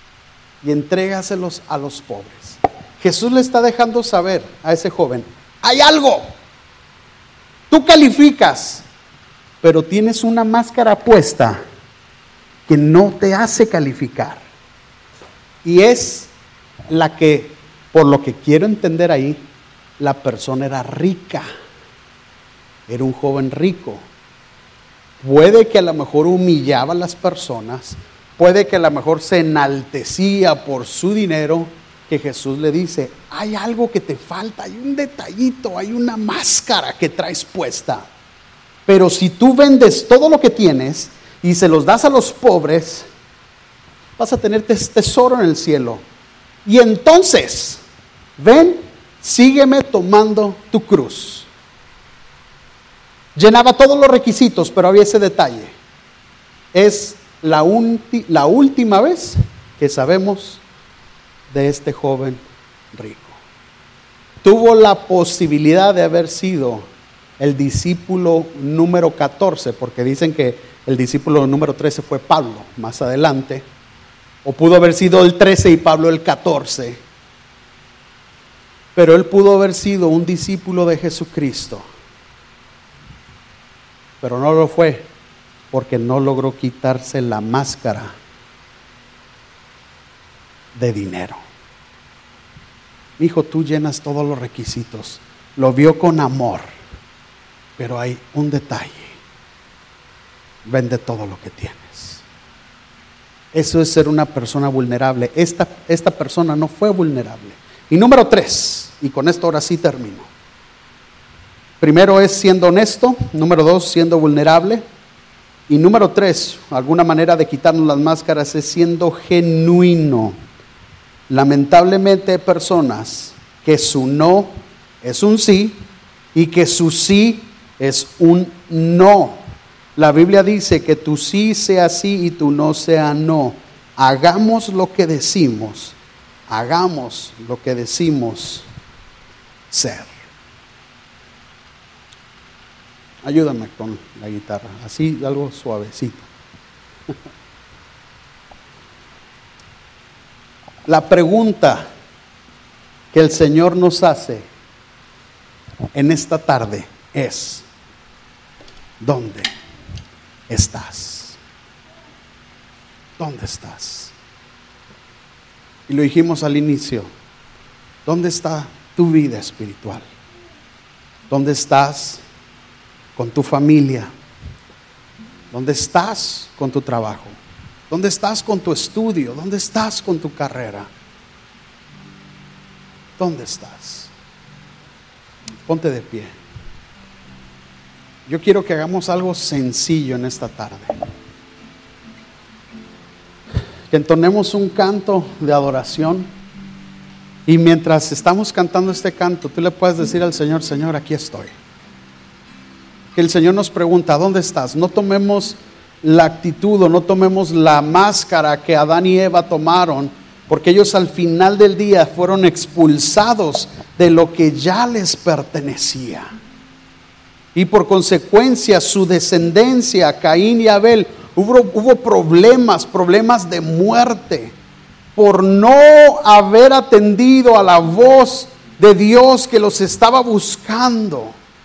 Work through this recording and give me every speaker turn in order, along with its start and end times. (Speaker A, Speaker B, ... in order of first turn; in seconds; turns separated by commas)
Speaker A: 0.6-6.3, Speaker A: 7.7-8.8, Speaker A: 9.6-11.6, Speaker A: 12.7-14.4, Speaker A: 15.6-16.3, Speaker A: 16.9-19.4, Speaker A: 20.0-21.5, Speaker A: 22.9-24.0, Speaker A: 25.2-38.1, Speaker A: 38.9-43.1, Speaker A: 44.2-46.0, Speaker A: 46.6-47.8, Speaker A: 48.4-51.5, Speaker A: 53.3-55.7, Speaker A: 56.7-60.6, Speaker A: 61.5-62.4, Speaker A: 62.9-63.4, Speaker A: 64.4-73.6, Speaker A: 74.4-77.0, Speaker A: 78.9-81.9, Speaker A: 84.2-85.1, Speaker A: 85.7-88.2, Speaker A: 90.7-91.4, Speaker A: 93.2-96.7, Speaker A: 97.8-99.2, Speaker A: 100.6-102.2, Speaker A: 103.5-110.3, Speaker A: 111.8-114.8, Speaker A: 115.7-120.4, Speaker A: 121.3-129.4, Speaker A: 129.9-136.0, Speaker A: 136.5-138.7, Speaker A: 139.7-140.1, Speaker A: 143.2-146.3, Speaker A: 150.9-151.8, Speaker A: 153.1-154.5, Speaker A: 155.9-157.7, Speaker A: 159.0-159.5, Speaker A: 160.5-161.4, Speaker A: 163.2-164.1, Speaker A: 165.9-167.1, Speaker A: 168.0-170.1, Speaker A: 171.3-172.2, Speaker A: 173.2-174.1, Speaker A: 175.5-177.4, Speaker A: 177.9-180.9, Speaker A: 183.2-184.1, Speaker A: 185.7-186.3, Speaker A: 188.2-190.9, Speaker A: 193.9-196.3, Speaker A: 197.4-201.5, Speaker A: 203.1-216.3, Speaker A: 217.5-224.6, Speaker A: 225.1-231.4